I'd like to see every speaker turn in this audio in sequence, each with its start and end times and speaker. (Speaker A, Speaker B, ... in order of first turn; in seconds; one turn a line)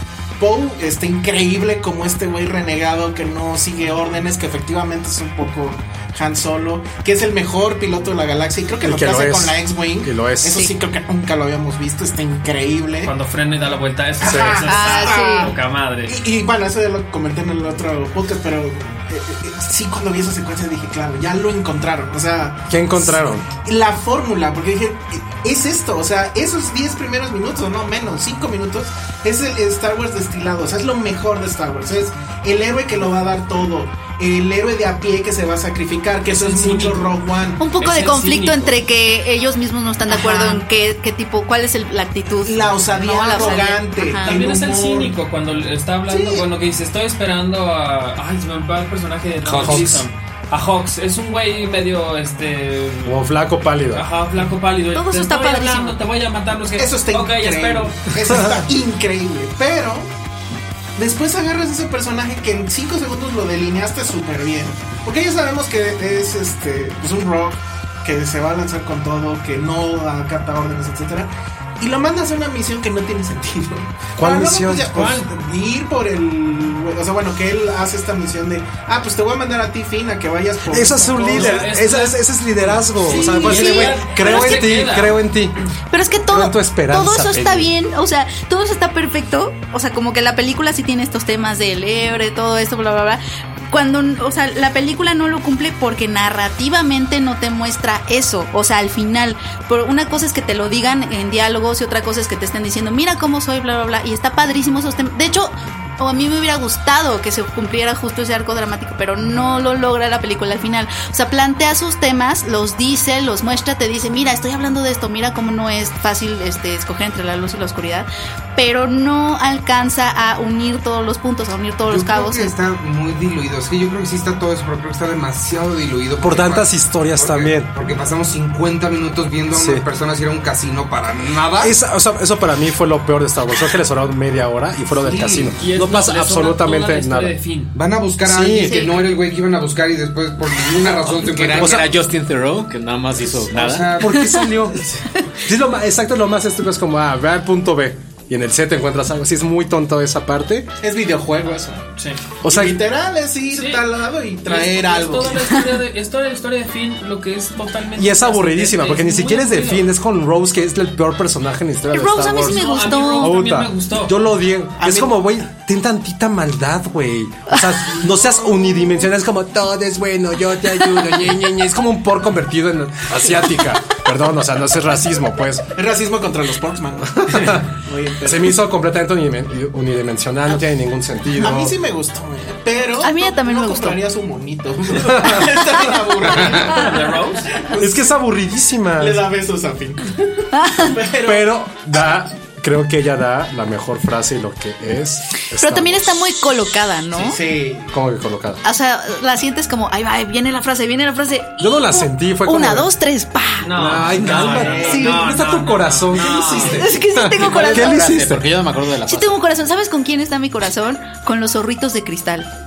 Speaker A: 0.4-13.1
Speaker B: 8.8-10.7
Speaker C: 13.0-16.1
Speaker A: 14.2-15.6
Speaker D: 14.7-15.5
Speaker A: 16.1-37.6
Speaker B: 22.7-23.5
Speaker C: 36.3-37.1
Speaker D: 37.6-44.3
Speaker C: 37.8-38.7
Speaker A: 40.1-40.6
Speaker A: 42.4-45.1
Speaker C: 44.2-53.2
Speaker A: 46.1-46.5
Speaker E: 49.4-50.0
Speaker B: 49.5-50.0
Speaker B: 53.0-54.0
Speaker C: 53.9-58.1
Speaker D: 54.9-56.0
Speaker A: 56.8-60.1
Speaker A: 61.0-81.7
Speaker B: 74.2-75.2
Speaker C: 74.9-75.3
Speaker B: 80.7-85.6
Speaker C: 81.3-85.2
Speaker D: 83.1-84.5
Speaker D: 85.9-122.5
Speaker B: 86.3-87.7
Speaker E: 121.8-131.8
Speaker B: 126.2-127.7
Speaker B: 129.5-129.8
Speaker B: 131.6-137.3
Speaker E: 134.9-135.6
Speaker C: 135.6-137.7
Speaker E: 137.7-141.9
Speaker B: 138.2-138.8
Speaker D: 138.6-139.0
Speaker F: 140.8-143.9
Speaker B: 141.5-141.8
Speaker E: 143.2-144.2
Speaker B: 144.0-144.8
Speaker D: 144.1-144.4
Speaker B: 145.4-150.7
Speaker A: 150.8-151.8
Speaker A: 152.4-155.4
Speaker B: 152.4-152.8
Speaker C: 153.5-153.8
Speaker C: 154.4-159.8
Speaker B: 158.0-175.7
Speaker D: 161.9-163.3
Speaker C: 162.4-164.2
Speaker A: 164.8-165.1
Speaker A: 175.7-178.6
Speaker B: 177.2-177.7
Speaker B: 178.2-181.8
Speaker A: 181.3-188.0
Speaker D: 183.0-184.0
Speaker B: 185.0-185.8
Speaker C: 186.7-187.5
Speaker B: 187.8-189.2
Speaker A: 189.0-191.5
Speaker D: 190.5-190.9
Speaker B: 191.2-196.1
Speaker D: 195.5-197.4
Speaker A: 197.1-197.9
Speaker B: 197.9-198.6
Speaker D: 198.6-203.7
Speaker B: 201.6-202.9
Speaker C: 203.6-206.9
Speaker B: 203.7-208.4
Speaker A: 204.2-205.2
Speaker A: 206.2-206.9
Speaker D: 206.5-208.2
Speaker F: 207.4-209.4
Speaker D: 209.1-212.5